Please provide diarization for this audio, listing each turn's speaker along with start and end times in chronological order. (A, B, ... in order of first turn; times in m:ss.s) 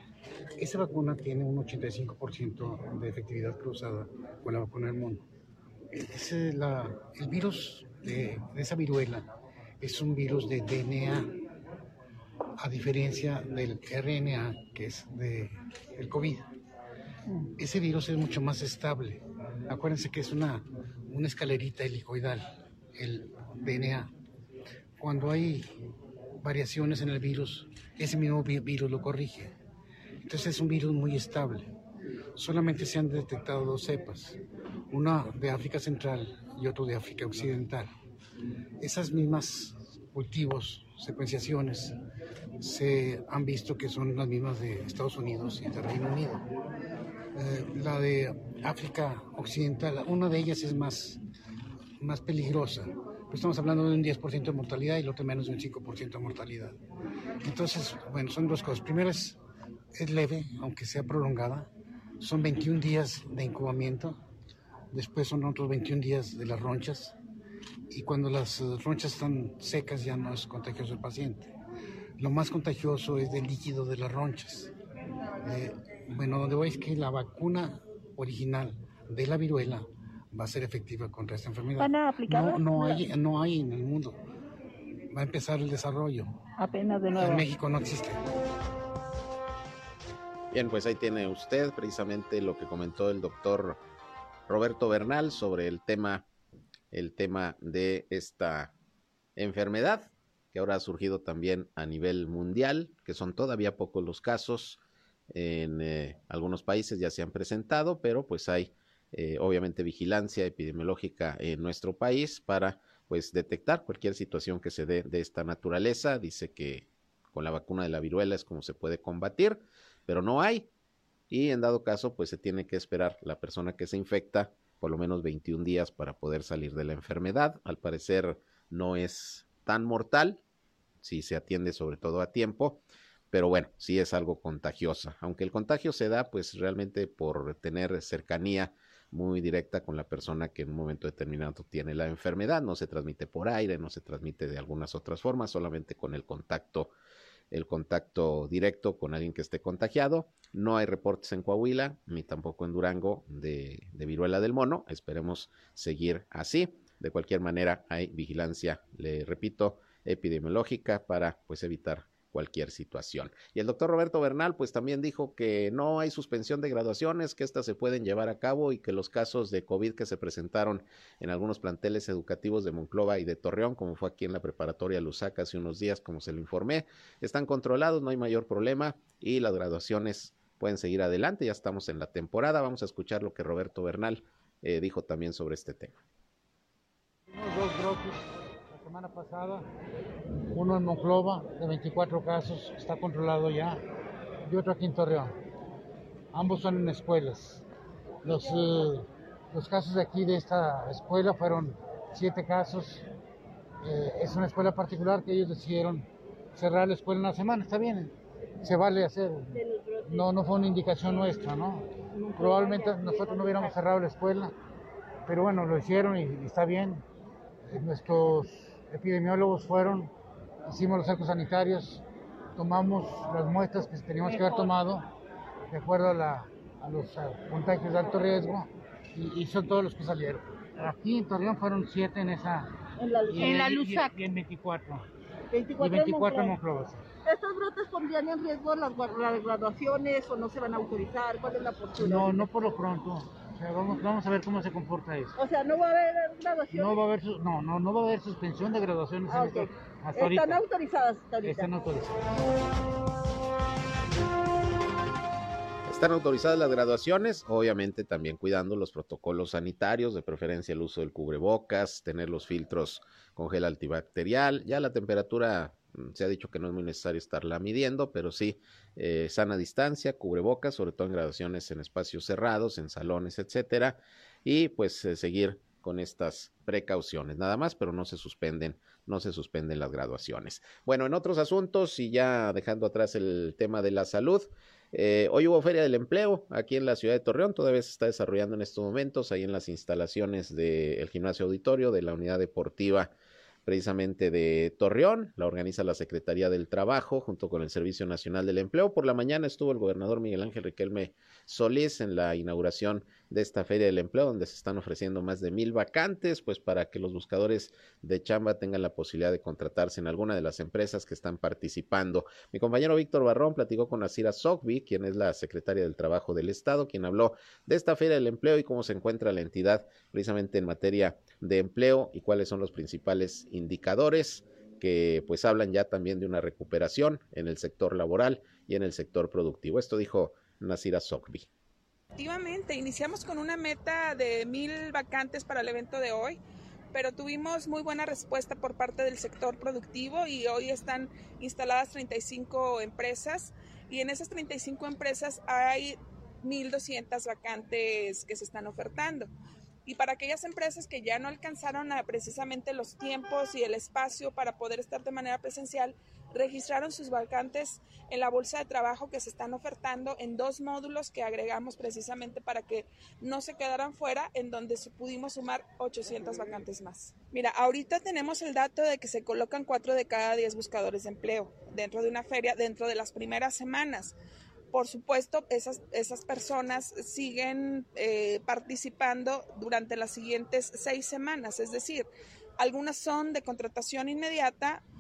0:00.6-0:05.3 A
0:05.9-0:09.3 A
0:09.8-0:11.4 A
0:12.6-0:16.5 A
0:17.6-0:24.1 A
0:25.0-0:25.7 A
0:26.4-0:29.6 A
0:30.2-0:31.7 A
0:32.4-0:34.4 A
0:34.9-0:37.9 A
0:38.8-0:42.0 A
0:42.6-0:46.5 A
0:47.4-0:51.2 A
0:52.0-0:56.8 A
0:57.4-0:59.4 A
0:59.9-1:04.2 A
1:04.9-1:07.2 A
1:07.9-1:11.5 A
1:12.2-1:14.7 A
1:15.4-1:24.2 A
1:21.8-1:23.1 B
1:25.1-1:26.4 A
1:26.6-1:27.5 B
1:27.2-1:28.2 A
1:30.5-1:33.8 C
1:34.5-1:36.2 C
1:36.9-1:38.7 C
1:39.4-1:44.8 C
1:45.3-2:00.7 C
2:01.3-2:10.4 C
2:11.0-2:12.8 C
2:13.3-2:26.9 C
2:27.5-3:06.0 C
3:07.3-3:09.7 D
3:10.5-3:13.8 D
3:14.4-3:15.3 D
3:16.3-3:17.6 D
3:18.2-3:23.0 D
3:23.8-3:34.5 D
3:29.5-3:30.3 E
3:32.1-3:33.8 E
3:35.3-3:37.0 D
3:37.7-3:40.1 D
3:40.7-3:42.0 D
3:42.6-3:45.1 D
3:45.7-3:52.7 D
3:53.0-3:53.6 E
3:53.3-3:55.0 D
3:53.4-3:54.2 B
3:55.5-3:56.6 E
3:55.8-3:57.0 D
3:57.3-4:02.5 E
4:02.0-4:05.4 D
4:05.4-4:07.0 E
4:06.7-4:10.6 D
4:09.3-4:11.7 E
4:11.4-4:12.2 D
4:15.9-4:53.1 C
4:53.7-5:31.5 C
5:32.2-5:36.4 F
5:36.9-5:49.3 F
5:49.9-6:14.1 F
6:14.7-6:22.1 F
6:22.6-6:24.8 F